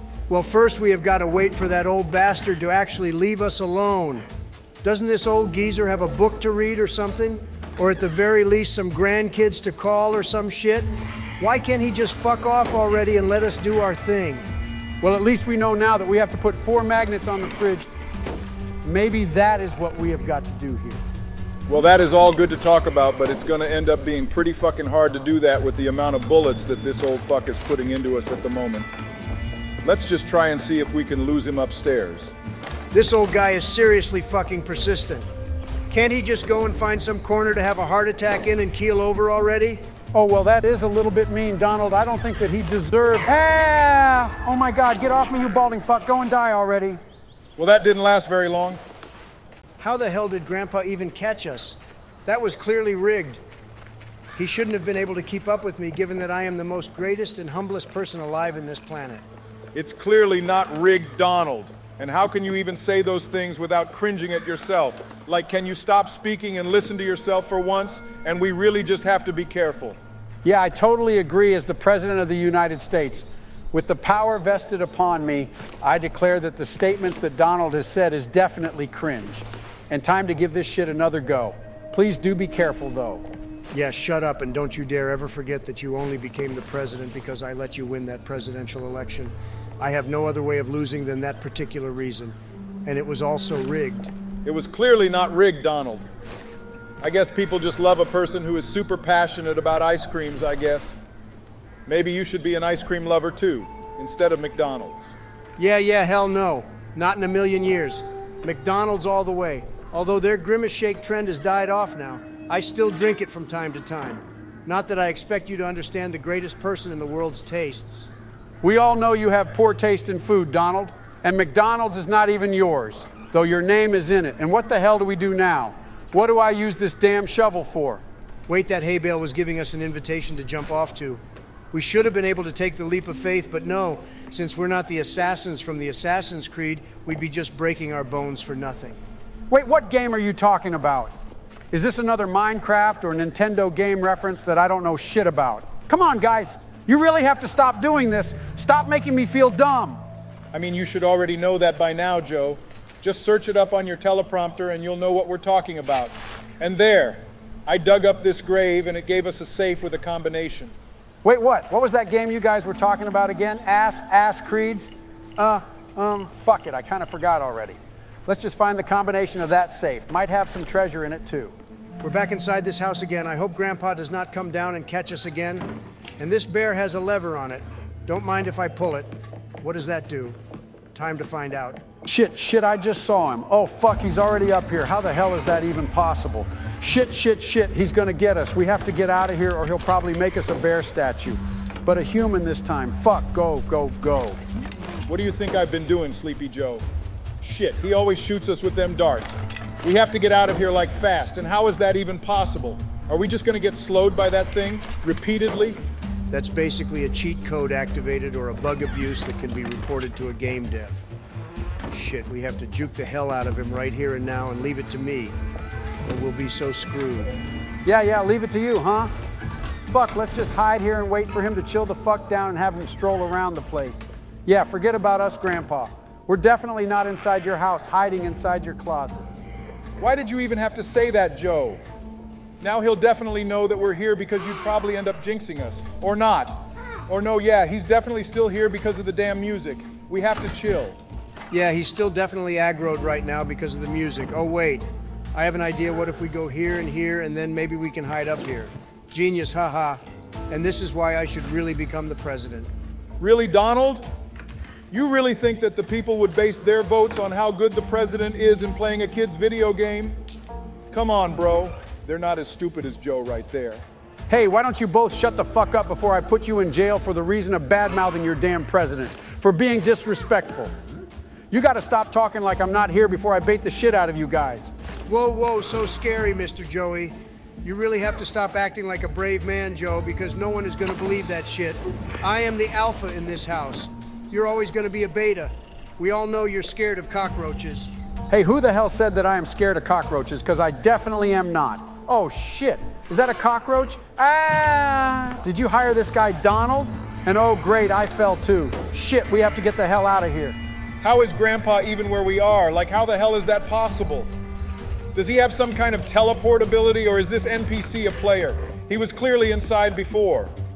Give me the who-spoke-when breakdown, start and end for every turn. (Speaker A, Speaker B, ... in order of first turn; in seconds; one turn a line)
Speaker A: 0.3-4.2
Speaker A: 4.8-14.4
Speaker B: 15.0-17.9
Speaker B: 18.8-21.0
Speaker C: 21.7-28.9
Speaker C: 29.8-32.3
Speaker A: 32.9-35.3
Speaker A: 35.9-39.8
Speaker B: 40.1-47.0
Speaker C: 47.6-48.8
Speaker A: 49.8-53.4
Speaker A: 54.4-59.2
Speaker C: 59.8-70.0
Speaker B: 70.4-83.2
Speaker A: 83.7-94.1
Speaker C: 94.5-96.1
Speaker C: 97.0-101.0
Speaker C: 101.9-105.1
Speaker A: 105.6-118.1
Speaker B: 118.6-128.0
Speaker A: 128.5-131.2
Speaker A: 131.7-139.0
Speaker B: 139.5-141.1
Speaker B: 141.7-150.0
Speaker C: 150.5-160.7
Speaker B: 161.2-171.6
Speaker A: 172.0-180.4
Speaker A: 180.9-181.8
Speaker B: 182.1-194.4
Speaker C: 195.1-196.8
Speaker C: 197.4-205.8
Speaker A: 206.3-211.0
Speaker A: 211.9-215.4
Speaker A: 216.1-217.4
Speaker B: 217.8-219.1
Speaker B: 219.9-229.5
Speaker C: 230.0-231.8
Speaker C: 232.6-241.0
Speaker A: 241.5-252.7
Speaker C: 253.2-254.1
Speaker C: 254.9-260.2
Speaker C: 260.9-263.8
Speaker B: 264.3-270.7
Speaker B: 271.5-274.7
Speaker A: 275.1-287.9
Speaker B: 288.3-300.6
Speaker C: 301.0-304.3
Speaker C: 305.1-310.5